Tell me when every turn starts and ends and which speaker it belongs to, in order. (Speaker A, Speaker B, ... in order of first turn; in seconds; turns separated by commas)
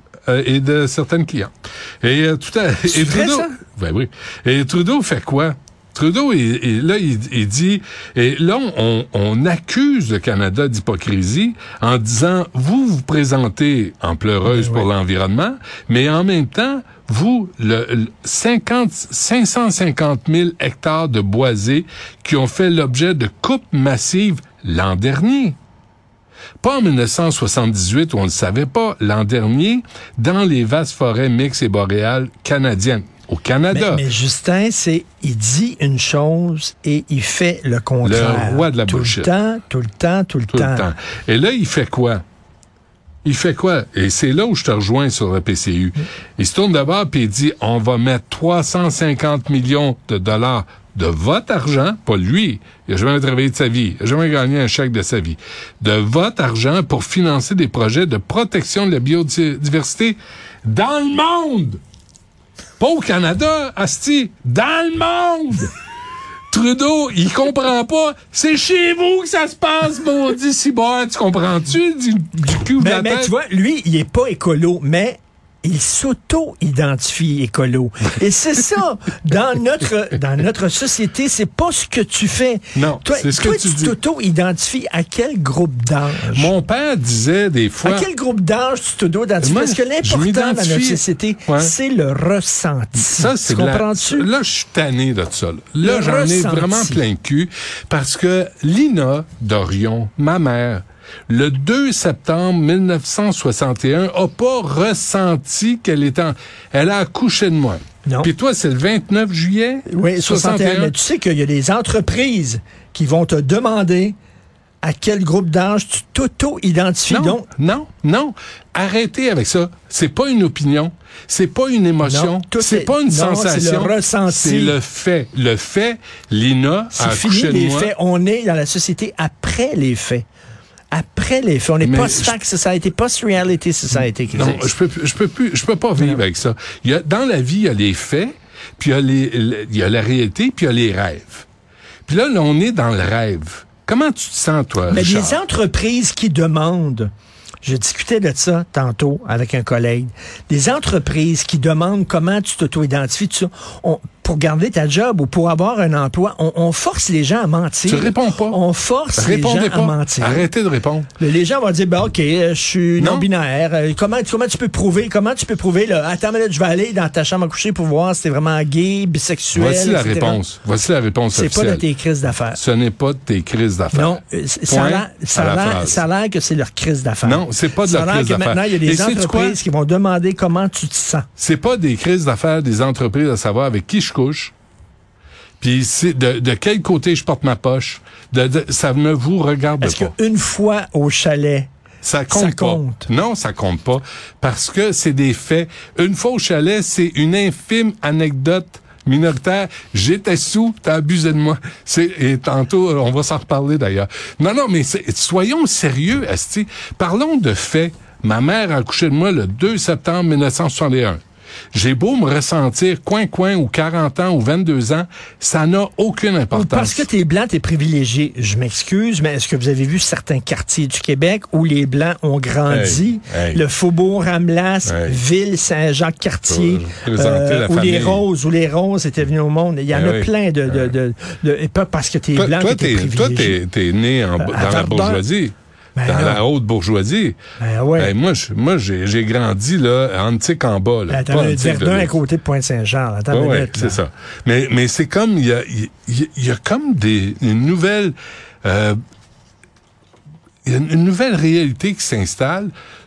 Speaker A: 0.3-25.6, Speaker B: 2.9-3.6, Speaker B: 14.4-14.9, Speaker A: 26.6-34.0, Speaker B: 33.7-40.9, Speaker A: 38.0-39.3, Speaker A: 40.5-42.2, Speaker A: 43.2-61.8, Speaker A: 62.8-65.7, Speaker A: 66.5-73.3, Speaker B: 72.8-86.5, Speaker A: 82.7-84.0, Speaker A: 86.3-88.1, Speaker B: 87.8-94.3, Speaker A: 89.4-91.7, Speaker A: 92.9-110.9, Speaker B: 95.8-97.0, Speaker B: 108.0-108.3, Speaker B: 109.9-114.2, Speaker B: 114.8-117.5, Speaker A: 117.1-127.9, Speaker B: 122.0-124.8, Speaker B: 126.9-130.2, Speaker B: 130.9-134.7, Speaker A: 131.8-132.3, Speaker A: 134.3-141.4, Speaker A: 142.1-145.4, Speaker B: 144.9-147.1, Speaker B: 147.6-160.5, Speaker A: 157.8-158.6, Speaker A: 159.2-161.1, Speaker B: 161.2-170.4, Speaker A: 163.0-163.3, Speaker A: 169.5-171.8, Speaker B: 171.3-172.6, Speaker A: 172.5-176.0, Speaker B: 173.9-181.3, Speaker A: 177.2-179.6, Speaker A: 181.4-184.5, Speaker A: 185.6-190.1, Speaker B: 189.8-191.7, Speaker A: 192.0-211.2, Speaker B: 192.3-193.1, Speaker A: 211.7-217.1, Speaker B: 216.5-233.6, Speaker A: 222.7-223.6, Speaker A: 224.8-225.2, Speaker A: 226.5-228.2, Speaker A: 229.9-230.9, Speaker A: 232.3-237.4, Speaker B: 234.4-235.2, Speaker B: 235.9-236.4, Speaker B: 237.6-238.1, Speaker A: 238.0-242.2, Speaker B: 241.1-244.0, Speaker A: 243.3-249.0, Speaker A: 250.6-252.7